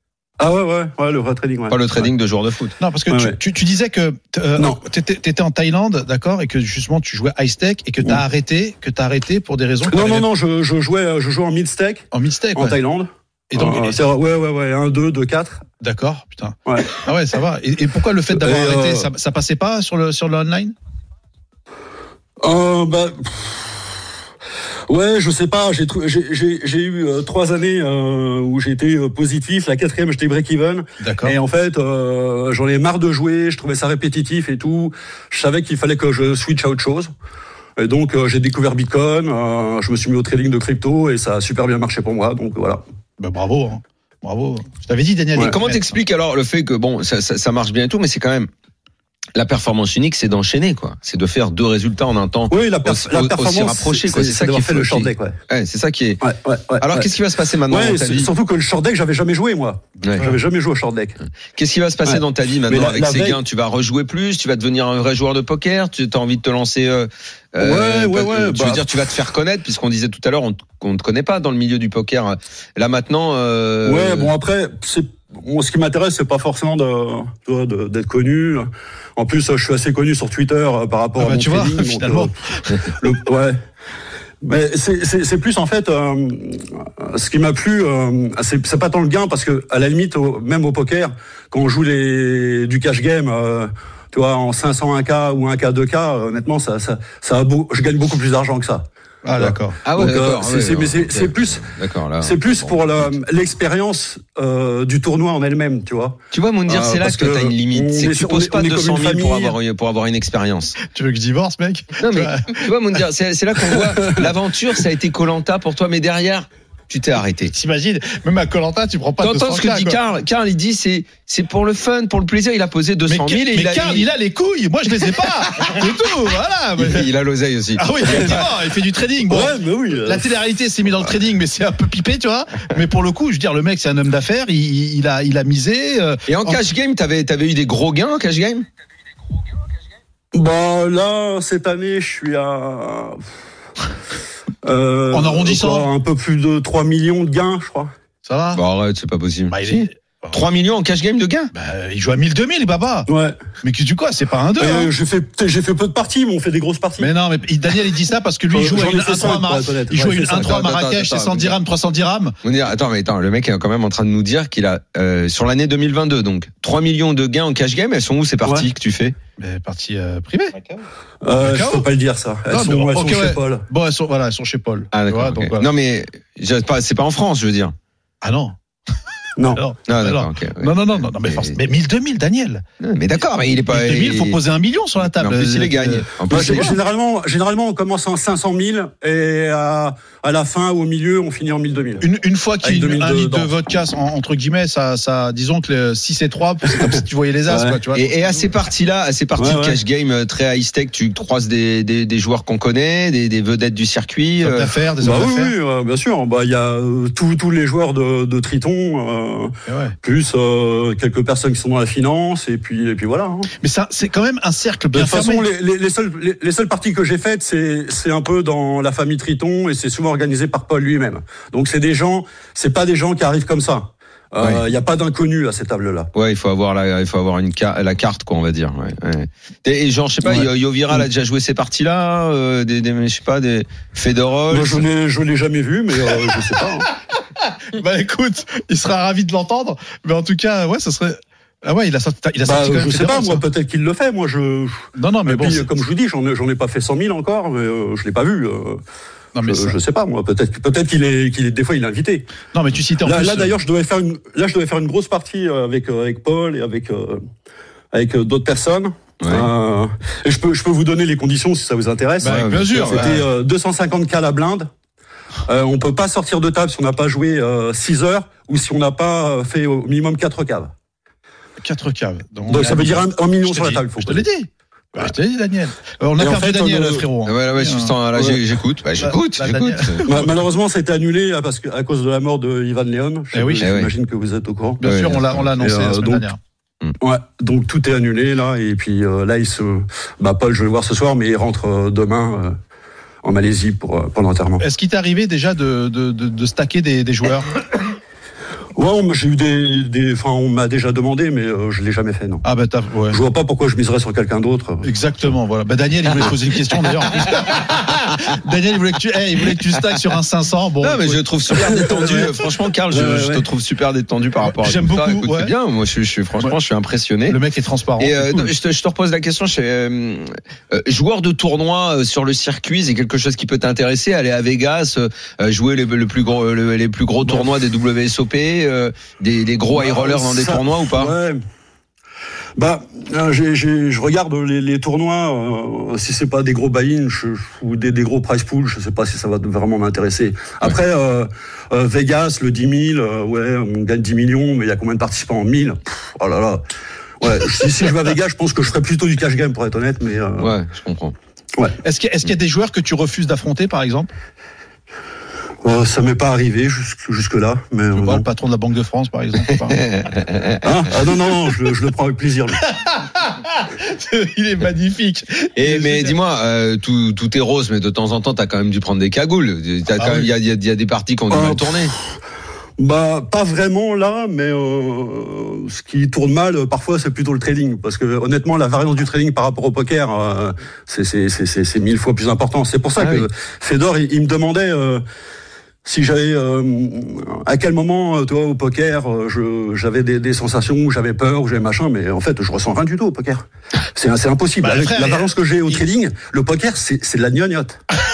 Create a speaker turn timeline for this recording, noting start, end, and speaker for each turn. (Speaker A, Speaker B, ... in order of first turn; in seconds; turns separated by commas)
Speaker A: 0.4-1.8, Speaker B: 1.7-2.8, Speaker C: 2.8-10.3, Speaker A: 3.1-3.4, Speaker A: 9.9-15.6, Speaker C: 12.1-12.8, Speaker C: 13.5-14.0, Speaker C: 15.8-20.7, Speaker A: 16.7-17.0, Speaker A: 18.3-19.1, Speaker A: 22.4-23.8, Speaker A: 24.9-37.1, Speaker C: 31.0-31.4, Speaker A: 37.8-42.8, Speaker C: 43.2-46.0, Speaker B: 45.4-48.5, Speaker B: 49.3-56.2, Speaker A: 52.5-55.3, Speaker A: 56.2-57.1, Speaker B: 56.8-58.3, Speaker A: 57.7-61.2, Speaker B: 60.0-60.3, Speaker B: 61.5-74.3, Speaker A: 62.0-63.4, Speaker A: 67.6-68.8, Speaker A: 73.8-82.3, Speaker C: 81.2-82.9, Speaker A: 82.9-83.6, Speaker A: 84.4-98.8, Speaker C: 99.2-99.8, Speaker A: 99.4-101.6, Speaker B: 99.8-103.1, Speaker A: 102.2-109.5, Speaker B: 106.3-110.8, Speaker C: 110.8-112.7, Speaker B: 112.0-117.5, Speaker C: 117.5-120.0, Speaker B: 119.2-124.1, Speaker C: 123.1-127.1, Speaker B: 126.8-128.3, Speaker C: 127.8-136.6, Speaker A: 129.3-130.3, Speaker B: 136.3-138.7, Speaker A: 140.3-143.2, Speaker A: 144.6-147.9, Speaker C: 145.1-145.9, Speaker C: 148.2-148.6, Speaker B: 148.5-151.5, Speaker C: 149.5-150.4, Speaker C: 151.5-153.1, Speaker A: 153.1-153.3, Speaker C: 153.6-154.9, Speaker A: 154.6-157.1, Speaker C: 157.0-162.3, Speaker A: 158.5-160.6, Speaker B: 160.3-161.6, Speaker B: 162.4-169.1, Speaker C: 169.4-170.5, Speaker A: 171.2-173.6, Speaker C: 171.4-171.9, Speaker C: 172.5-175.7, Speaker B: 174.9-177.7, Speaker C: 178.2-178.6, Speaker A: 179.4-179.6, Speaker C: 179.5-182.6, Speaker B: 179.9-181.6, Speaker B: 182.8-184.4, Speaker C: 183.7-186.7, Speaker B: 185.0-186.7, Speaker A: 186.3-192.1, Speaker C: 192.0-198.5, Speaker A: 192.6-193.5, Speaker A: 197.5-197.8, Speaker B: 197.9-204.7, Speaker A: 199.4-199.8, Speaker C: 204.4-205.5, Speaker A: 205.0-213.5, Speaker C: 209.7-209.9, Speaker C: 213.6-215.4, Speaker A: 214.9-226.1, Speaker B: 226.1-234.8, Speaker A: 234.5-236.9, Speaker C: 237.4-243.4, Speaker A: 242.4-248.8, Speaker C: 244.9-245.7, Speaker C: 249.3-249.8, Speaker A: 249.4-252.3, Speaker C: 252.5-253.5, Speaker A: 253.0-257.2, Speaker A: 257.9-264.7, Speaker B: 259.2-259.5, Speaker C: 262.2-263.3, Speaker B: 262.2-263.1, Speaker A: 265.5-270.7, Speaker C: 271.6-277.9, Speaker A: 272.5-274.2, Speaker A: 276.2-277.1, Speaker B: 277.2-280.1, Speaker C: 279.0-280.3, Speaker A: 280.1-284.8, Speaker C: 283.3-283.7, Speaker B: 283.6-283.9, Speaker C: 284.8-286.4, Speaker B: 284.8-285.4, Speaker A: 285.6-286.2, Speaker A: 287.0-292.6, Speaker A: 293.2-294.6, Speaker C: 294.6-297.5, Speaker A: 298.8-302.4, Speaker C: 302.4-303.2, Speaker A: 303.1-304.9, Speaker C: 304.8-311.2, Speaker B: 310.8-317.4, Speaker A: 311.6-313.4, Speaker C: 314.4-315.5, Speaker C: 317.3-318.5, Speaker B: 318.0-331.1, Speaker A: 329.7-331.4, Speaker A: 332.6-346.6, Speaker A: 347.2-350.5, Speaker B: 350.4-351.1, Speaker C: 351.8-354.1, Speaker A: 355.6-358.2, Speaker C: 357.9-359.8, Speaker B: 359.5-360.7, Speaker A: 360.6-362.6, Speaker C: 362.7-366.1, Speaker B: 365.6-371.9, Speaker C: 369.9-370.3, Speaker A: 371.3-371.9, Speaker A: 372.8-385.0, Speaker B: 383.0-383.3, Speaker A: 385.8-397.8, Speaker C: 394.6-395.8